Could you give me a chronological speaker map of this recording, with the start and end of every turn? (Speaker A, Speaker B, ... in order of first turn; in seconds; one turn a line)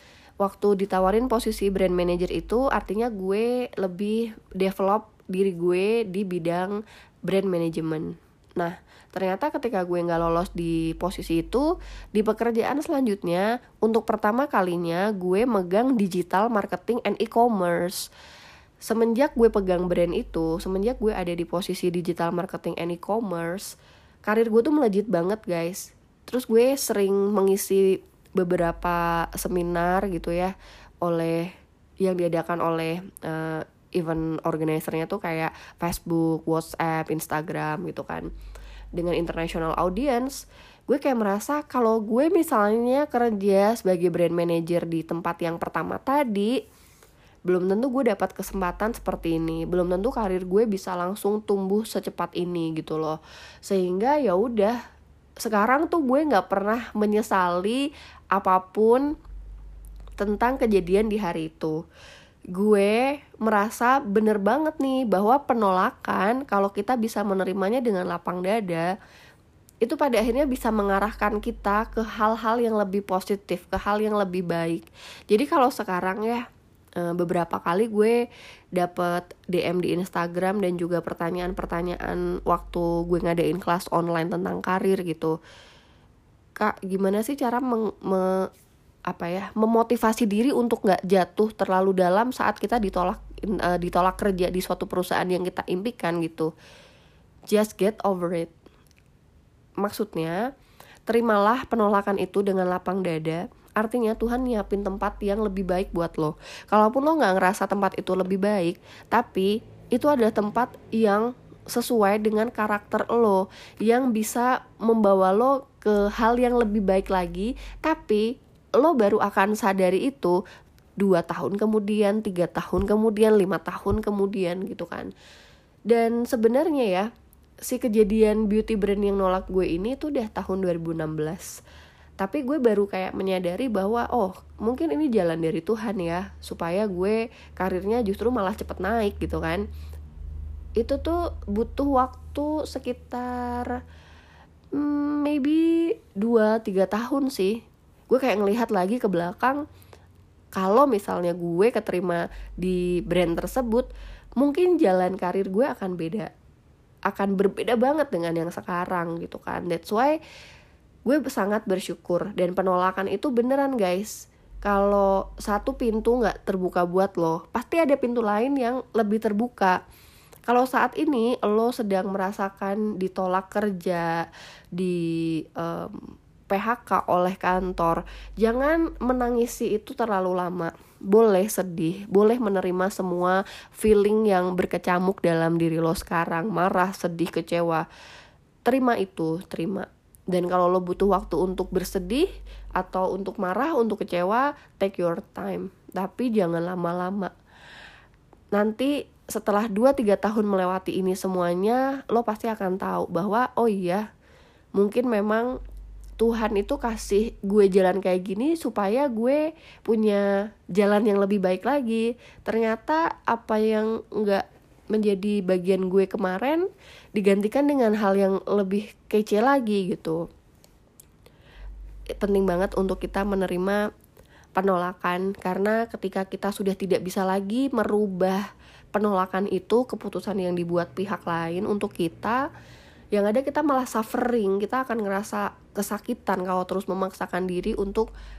Speaker A: 0.4-18.1
Speaker A: 18.8-30.5
Speaker A: 31.0-31.5
Speaker A: 32.0-38.3
Speaker A: 39.0-46.5
Speaker A: 47.5-54.8
Speaker A: 55.4-59.1
Speaker A: 60.2-61.8
Speaker A: 62.5-68.9
Speaker A: 69.8-76.5
Speaker A: 77.0-78.2
Speaker A: 78.8-85.4
Speaker A: 86.6-88.5
Speaker A: 89.1-96.5
Speaker A: 97.5-98.5
Speaker A: 99.8-100.4
Speaker A: 101.1-120.4
Speaker A: 121.0-125.1
Speaker A: 125.9-127.1
Speaker A: 127.7-131.6
Speaker A: 132.2-139.6
Speaker A: 140.8-143.8
Speaker A: 144.7-149.6
Speaker A: 150.6-153.9
Speaker A: 154.4-156.3
Speaker A: 157.1-160.2
Speaker A: 161.1-169.8
Speaker A: 170.5-174.2
Speaker A: 174.8-187.9
Speaker A: 188.7-192.3
Speaker A: 192.8-197.3
Speaker A: 198.6-204.0
Speaker A: 204.8-205.5
Speaker A: 206.2-220.2
Speaker A: 222.2-223.8
Speaker A: 224.6-232.4
Speaker A: 233.1-238.1